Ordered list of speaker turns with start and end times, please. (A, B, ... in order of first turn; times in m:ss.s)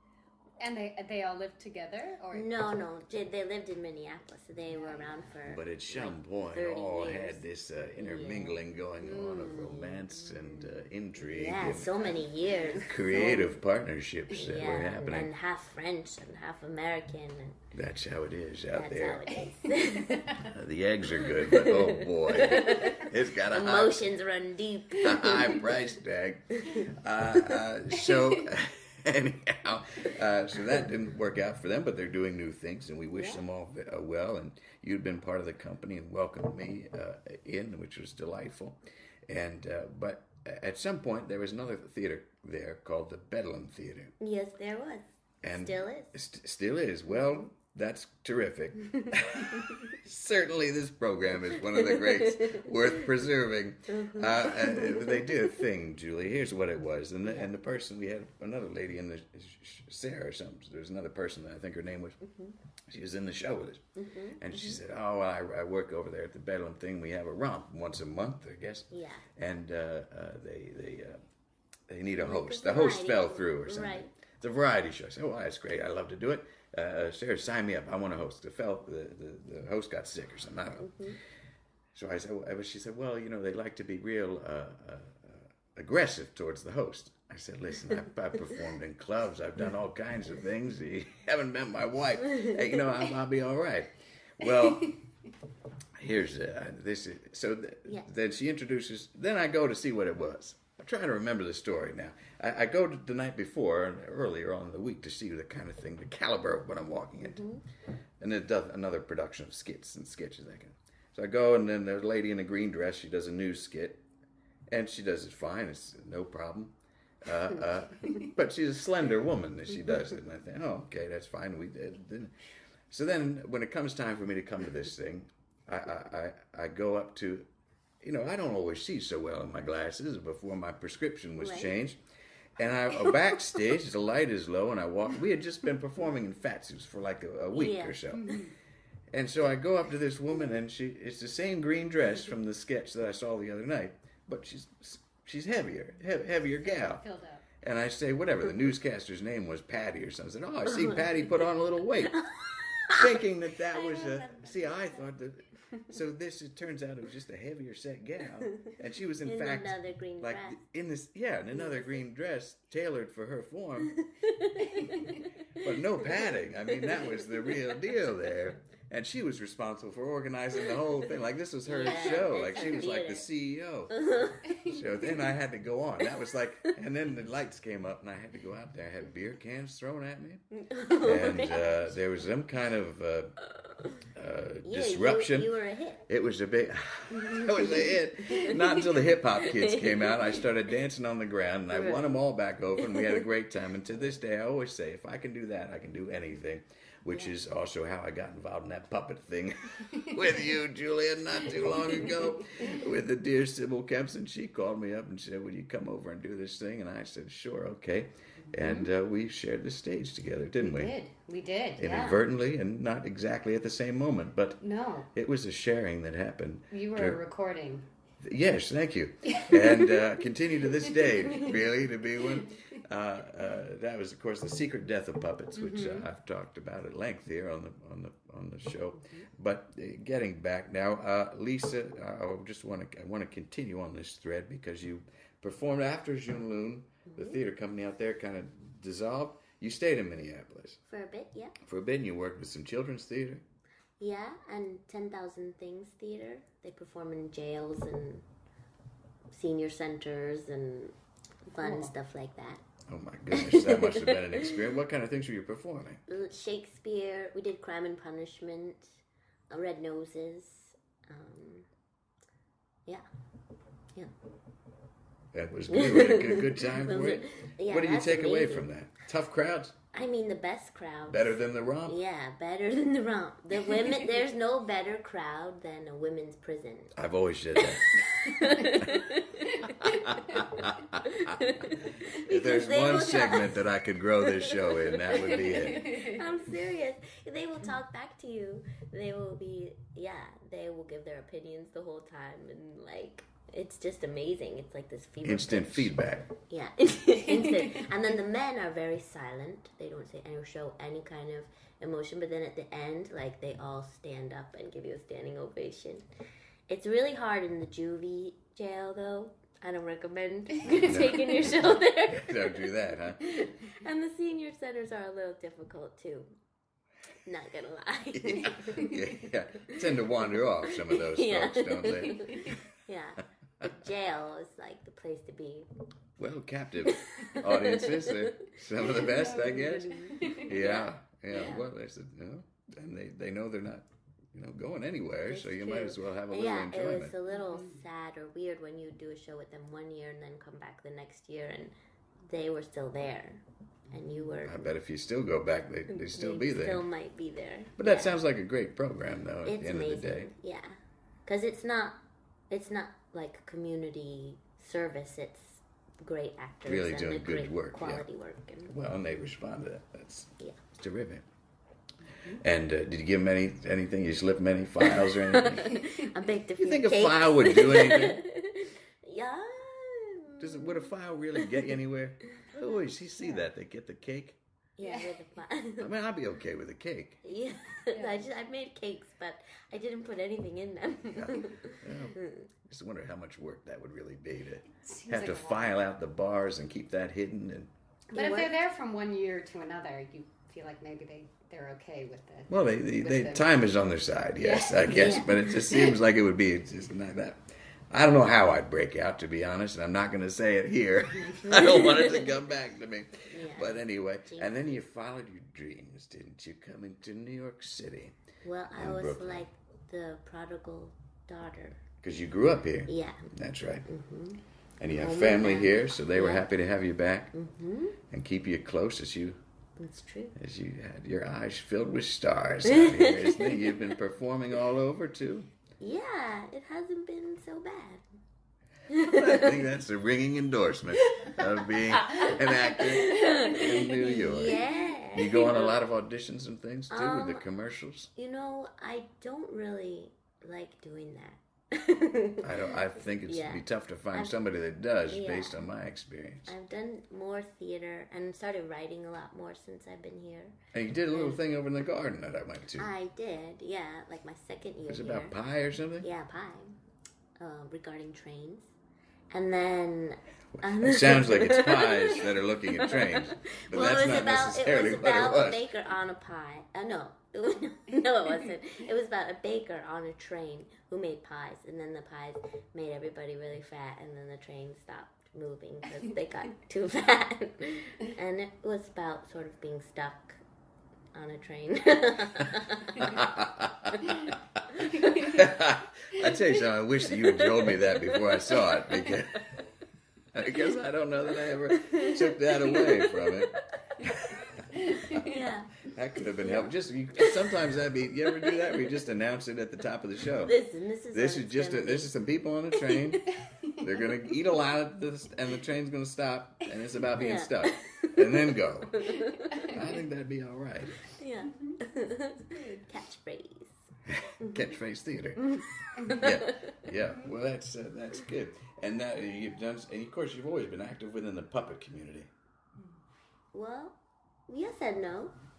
0:00.6-0:02.7 A
0:02.3-0:07.4 B
0:04.7-0:05.1 A
0:05.4-0:12.1 C
0:07.9-0:13.6 B
0:09.2-0:09.6 A
0:11.9-0:13.4 A
0:12.8-0:15.3 C
0:14.3-0:17.6 B
0:17.7-0:19.2 C
0:18.7-0:20.4 B
0:19.3-0:20.5 A
0:20.5-0:24.1 C
0:21.2-0:25.7 B
0:25.0-0:44.1 C
0:26.6-0:26.9 B
0:33.1-0:33.4 B
0:44.2-0:46.1 B
0:45.4-1:02.2 C
0:51.8-0:52.7 B
0:53.9-0:55.5 B
1:02.2-1:02.5 B
1:02.9-1:03.8 C
1:04.0-1:04.8 B
1:04.4-1:11.2 C
1:08.9-1:09.2 B
1:11.9-1:20.9 C
1:12.2-1:14.1 B
1:20.8-1:21.2 B
1:21.9-1:35.0 C
1:36.0-1:47.4 C
1:47.2-1:47.6 B
1:48.2-1:54.0 C
1:54.7-2:02.3 C
2:02.9-2:07.5 C
2:08.0-2:12.0 C
2:11.4-2:11.7 B
2:12.6-2:18.3 C
2:17.5-2:18.4 B
2:18.1-2:18.5 A
2:19.1-2:27.0 C
2:26.6-2:27.5 A
2:27.6-2:32.2 C
2:30.7-2:31.2 B
2:32.1-2:33.0 B
2:32.9-2:43.9 C
2:33.7-2:35.1 A
2:38.5-2:40.6 B
2:41.5-2:41.9 B
2:44.0-2:45.2 B
2:45.6-2:54.0 C
2:46.9-2:47.3 B
2:51.6-2:53.2 B
2:51.8-2:52.8 A
2:53.9-2:54.5 B
2:54.4-2:54.9 A
2:54.6-3:00.4 C
3:00.5-3:01.9 B
3:01.0-3:03.3 C
3:04.1-3:05.5 C
3:04.6-3:06.0 B
3:06.1-3:30.9 C
3:07.2-3:10.2 B
3:11.7-3:12.2 B
3:12.8-3:13.2 B
3:28.5-3:28.9 A
3:30.6-3:32.2 A
3:31.8-3:34.6 C
3:34.6-3:35.1 A
3:35.1-3:37.2 C
3:36.7-3:37.8 A
3:38.2-4:00.8 C
3:39.3-3:40.1 A
3:40.8-3:41.6 A
3:42.2-3:42.5 A
3:45.6-3:46.0 A
3:57.0-3:57.4 B
4:00.9-4:01.6 B
4:01.6-4:03.4 C
4:04.0-4:08.2 B
4:09.3-4:10.9 B
4:11.5-4:12.6 B
4:11.5-4:11.9 A
4:12.9-4:16.0 C
4:13.3-4:14.6 B
4:16.1-4:19.0 B
4:19.5-4:21.7 B
4:25.3-4:29.7 C
4:25.7-4:28.7 B
4:29.9-4:36.9 B
4:31.1-4:32.0 C
4:36.9-4:37.9 C
4:37.6-4:55.9 B
4:38.4-4:38.7 A
4:39.8-4:45.9 C
4:45.4-4:46.2 A
4:55.2-4:56.3 C
4:56.5-5:06.0 B
4:57.2-4:57.9 A
5:06.7-5:16.3 B
5:10.6-5:13.4 C
5:17.2-5:19.0 B
5:18.1-5:22.6 C
5:19.6-5:19.8 B
5:20.6-5:25.7 B
5:26.2-5:37.1 C
5:26.8-5:31.6 B
5:28.9-5:30.7 A
5:35.3-5:41.7 B
5:37.3-5:37.8 A
5:42.2-5:44.7 B
5:44.4-5:46.8 C
5:45.9-5:48.2 B
5:47.8-5:50.3 C
5:49.4-5:50.7 B
5:51.2-5:52.0 B
5:52.5-5:58.7 B
5:56.6-5:58.0 C
5:58.6-6:01.2 C
6:02.3-6:05.8 C
6:04.8-6:11.7 B
6:06.6-6:08.2 C
6:10.4-6:14.4 C
6:14.8-6:15.9 B
6:14.8-6:15.2 A
6:15.8-6:17.2 C
6:17.2-6:22.5 B
6:17.9-6:18.3 A
6:21.1-6:27.7 C
6:24.8-6:25.7 A
6:28.1-6:28.6 B
6:28.1-6:33.5 A
6:32.5-6:48.2 C
6:34.4-6:36.0 A
6:34.8-6:35.3 B
6:41.6-6:42.2 B
6:43.3-6:44.5 B
6:48.4-6:51.8 B
6:48.7-6:49.4 C
6:52.0-6:53.9 C
6:52.9-6:53.3 B
6:53.8-6:54.4 B
6:54.8-6:57.3 C
6:54.9-6:56.4 B
6:57.3-6:58.0 B
6:58.1-6:59.4 C
6:59.8-7:00.3 B
7:00.3-7:05.5 C
7:02.7-7:03.8 B
7:05.8-7:08.0 B
7:08.9-7:09.6 B
7:08.9-7:14.6 C
7:12.1-7:14.0 A
7:12.7-7:15.7 B
7:15.1-7:18.1 C
7:16.9-7:17.4 B
7:18.2-7:24.4 B
7:22.4-7:26.5 C
7:25.1-7:25.6 B
7:26.4-7:30.6 B
7:30.7-7:32.9 C
7:31.1-7:31.4 B
7:32.8-7:35.3 B
7:34.9-7:36.1 C
7:36.0-7:36.7 B
7:37.4-7:38.7 B
7:39.3-8:00.4 B
7:40.5-7:45.6 C
8:01.1-8:03.3 B
8:03.0-8:04.3 C
8:04.0-8:05.0 B
8:04.9-8:05.4 A
8:05.2-8:09.4 C
8:07.1-8:09.1 B
8:10.3-8:14.4 C
8:11.6-8:13.5 B
8:14.7-8:15.4 A
8:15.0-8:17.5 B
8:15.8-8:20.6 C
8:18.4-8:18.7 B
8:20.4-8:22.1 B
8:21.1-8:31.0 C
8:23.5-8:23.9 A
8:27.2-8:29.7 B
8:29.5-8:29.8 A
8:31.0-8:33.7 B
8:31.4-8:31.8 A
8:32.3-8:32.8 A
8:34.1-8:35.4 C
8:34.4-8:34.7 B
8:35.4-8:36.8 B
8:36.0-8:36.2 A
8:36.1-8:42.3 C
8:43.5-8:44.0 B
8:44.5-8:45.3 B